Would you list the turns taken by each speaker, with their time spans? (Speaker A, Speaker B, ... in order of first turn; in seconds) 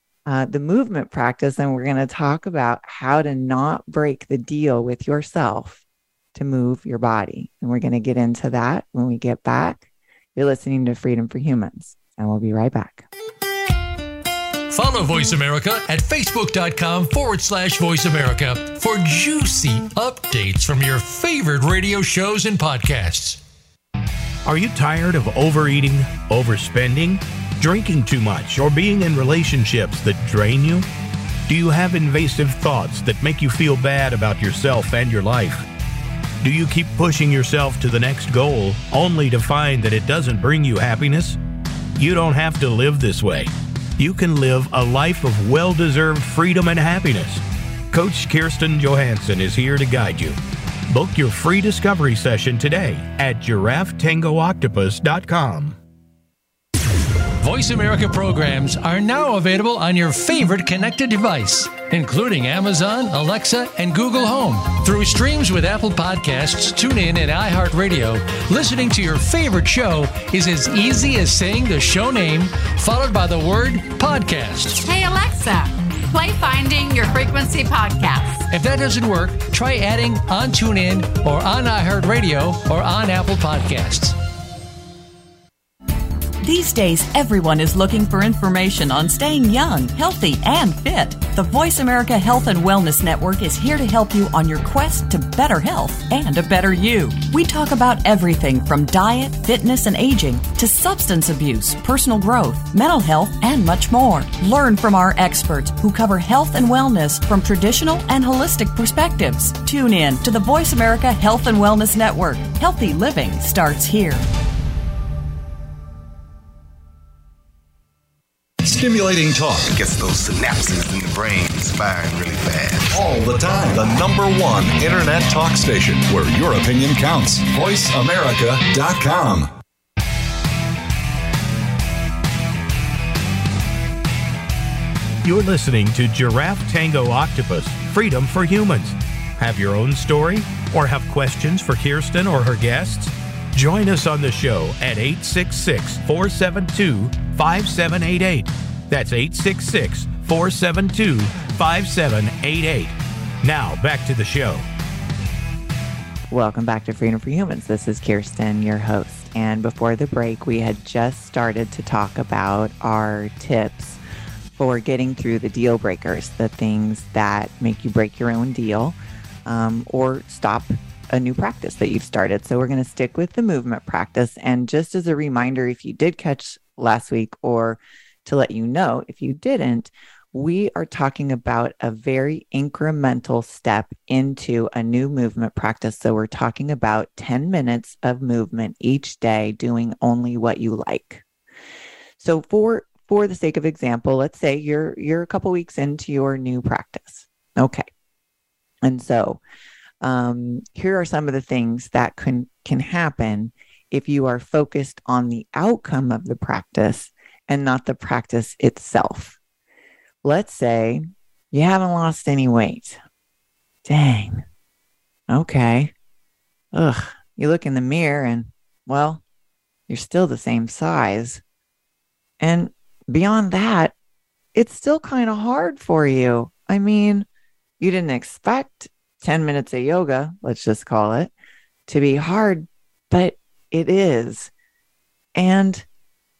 Speaker A: 0.3-5.8, 6.3-13.1, 156.3-164.0, 164.6-191.2, 192.2-197.9, 198.8-199.4, 200.0-209.4, 210.2-213.0, 213.8-214.4, 215.3-215.9, 216.7-219.2, 219.9-221.4, 222.4-223.9, 224.6-227.3, 227.8-231.3, 231.9-234.5, 235.4-235.8
Speaker B: 14.7-23.4, 57.4-74.8, 78.5-84.2
Speaker C: 24.4-30.9, 31.5-35.6, 36.4-41.4, 42.0-50.4, 50.9-55.8, 135.2-154.6
Speaker D: 74.8-78.5
Speaker E: 86.4-114.2
Speaker F: 118.7-119.7, 122.9-129.5
Speaker G: 119.7-122.9